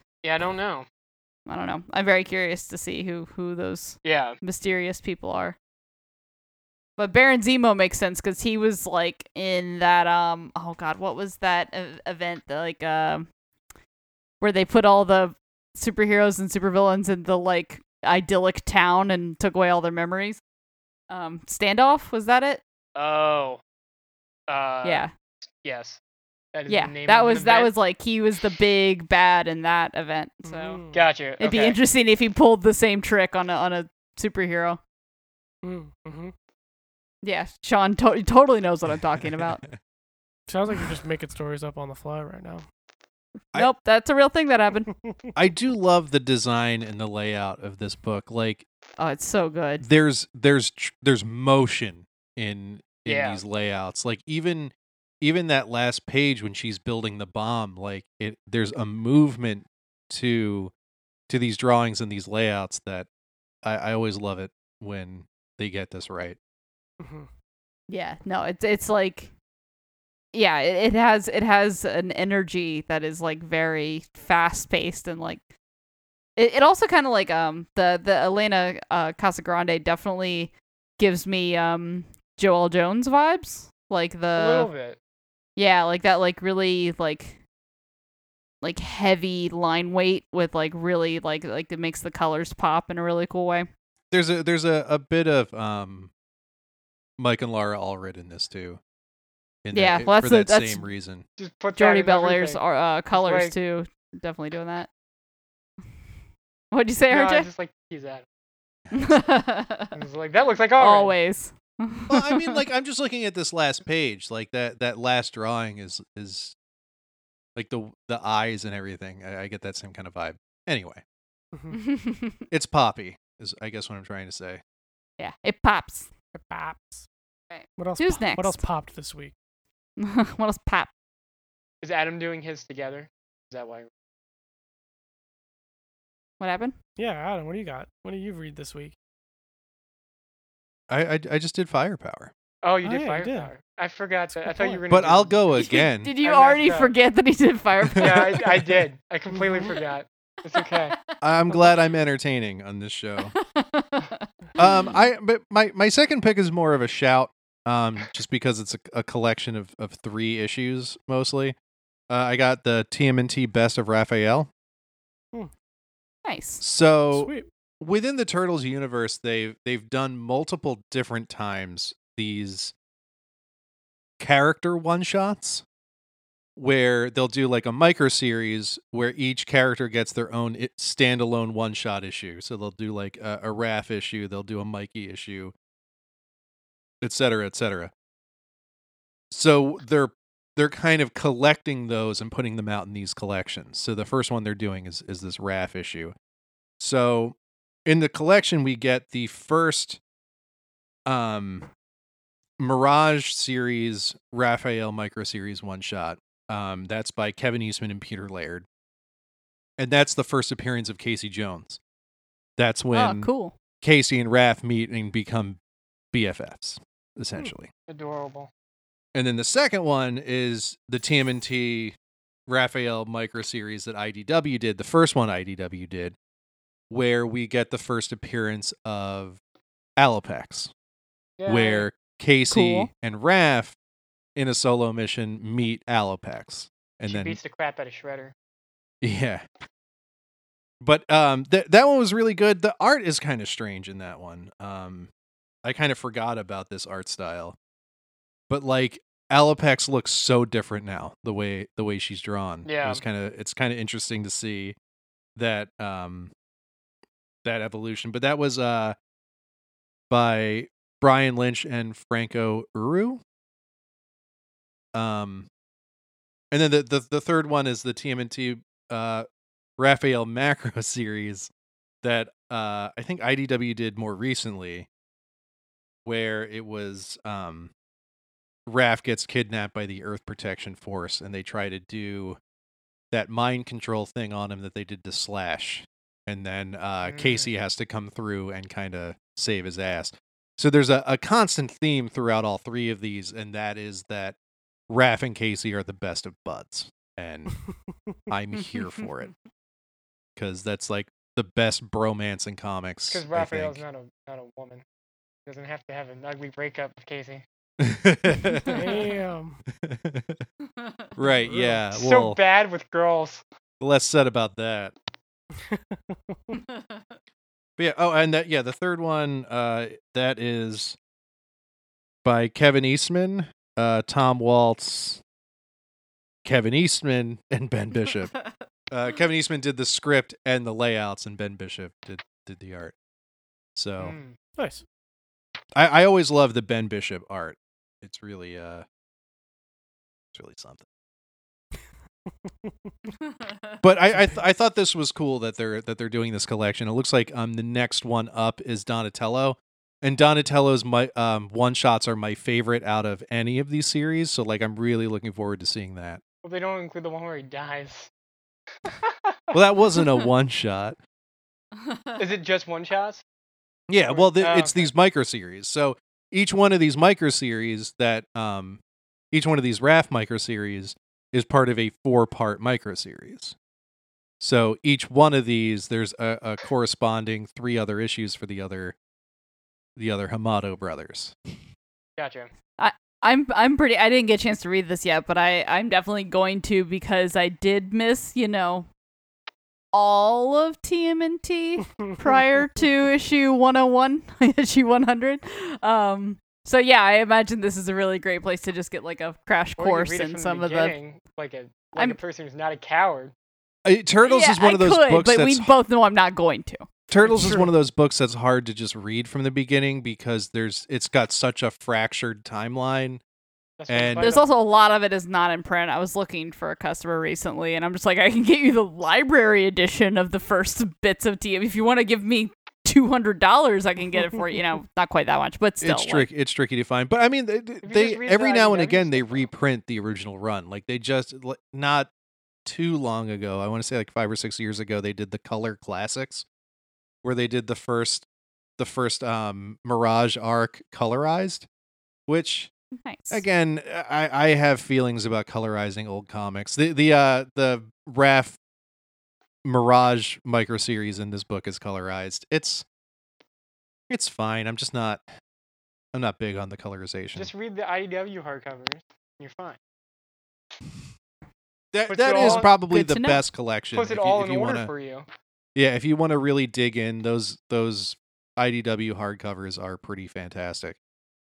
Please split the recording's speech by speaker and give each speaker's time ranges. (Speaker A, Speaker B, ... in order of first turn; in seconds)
Speaker A: 0.2-0.9, 4.0-4.4, 22.9-23.6, 24.5-25.0, 25.6-26.0, 26.5-27.7, 30.9-31.8, 53.0-53.4, 84.3-85.0, 101.4-103.5, 107.1-108.2, 109.9-111.1, 131.8-133.9, 142.6-145.4, 146.2-146.9, 148.0-150.9, 217.9-218.5, 231.4-231.9, 237.1-238.3, 252.6-253.0, 287.0-287.5, 303.1-304.8, 305.4-307.4, 311.9-313.4, 334.0-334.4, 356.4-358.1, 358.8-359.6, 362.2-363.2, 364.0-364.8, 382.2-382.5, 399.8-403.3, 413.8-414.5, 427.8-429.5, 457.3-459.8, 462.1-462.7, 463.9-465.2
Speaker B: 1.5-5.5, 7.0-13.2, 14.4-20.4, 21.1-22.6, 24.8-25.1, 26.7-30.8, 31.4-34.8, 37.2-39.6, 43.5-44.9, 49.0-49.8, 67.9-69.3, 70.3-75.4, 76.4-84.7, 85.5-87.4, 88.6-93.7, 99.7-100.8, 101.8-104.9, 106.7-107.5, 108.9-110.0, 110.8-112.6, 121.7-122.4, 125.2-126.1, 127.5-128.6, 130.0-130.9, 136.4-136.8, 145.6-148.4, 150.5-151.7, 153.3-154.9, 166.2-166.6, 212.9-213.5, 232.5-232.9, 361.8-362.2, 382.8-388.9, 389.9-401.0, 404.2-406.9, 414.2-426.3, 443.0-443.4, 462.3-463.4
Speaker C: 30.4-31.0, 35.6-36.3, 40.5-42.6, 67.0-67.3, 126.3-127.1, 127.8-129.3, 137.0-138.9, 142.8-143.5, 144.3-144.8, 149.3-149.7, 167.1-167.5, 308.6-309.6, 311.4-311.8, 315.6-316.6, 334.6-334.8, 392.0-392.4, 407.2-407.7
Speaker D: 39.4-39.7, 45.4-48.6, 49.8-60.7, 61.3-63.1, 63.6-66.4, 94.1-96.1, 97.2-98.8, 99.6-101.2, 108.9-109.2, 112.1-116.5, 117.5-121.0, 122.5-124.6, 140.9-142.3, 144.9-146.1, 147.9-148.8, 151.2-153.3, 154.6-161.5, 162.1-164.5, 166.6-172.7, 174.2-175.6, 176.6-185.5, 187.0-187.9, 189.3-196.1, 196.8-200.0, 201.1-201.7, 202.6-208.7, 209.8-211.8, 212.6-213.3, 213.8-215.6, 216.1-217.7, 219.1-221.9, 222.5-226.1, 226.9-229.4, 230.0-230.7, 231.5-233.7, 234.3-237.4, 239.0-239.4, 240.8-245.1, 245.6-247.6, 248.5-254.8, 255.3-256.3, 257.4-258.9, 260.1-263.2, 264.9-265.5, 266.5-269.2, 269.8-271.5, 272.0-274.9, 276.1-277.7, 278.7-282.4, 283.1-294.4, 294.9-297.6, 298.3-299.3, 300.4-303.8, 307.8-308.9, 309.8-310.4, 311.1-312.4, 313.8-314.9, 317.8-321.0, 322.2-325.2, 326.4-328.3, 328.9-332.9, 333.8-334.1, 335.8-338.8, 340.3-340.8, 343.8-356.2, 359.5-361.0, 363.9-368.8, 369.3-373.5, 374.4-378.9, 379.9-381.3, 403.8-405.7, 407.1-413.2, 413.9-414.3, 425.8-432.1, 432.6-436.4, 437.2-438.2, 438.8-441.6, 442.3-442.7, 443.3-448.6, 449.6-452.8, 454.1-455.2, 456.1-457.5, 461.9-464.9, 465.8-471.0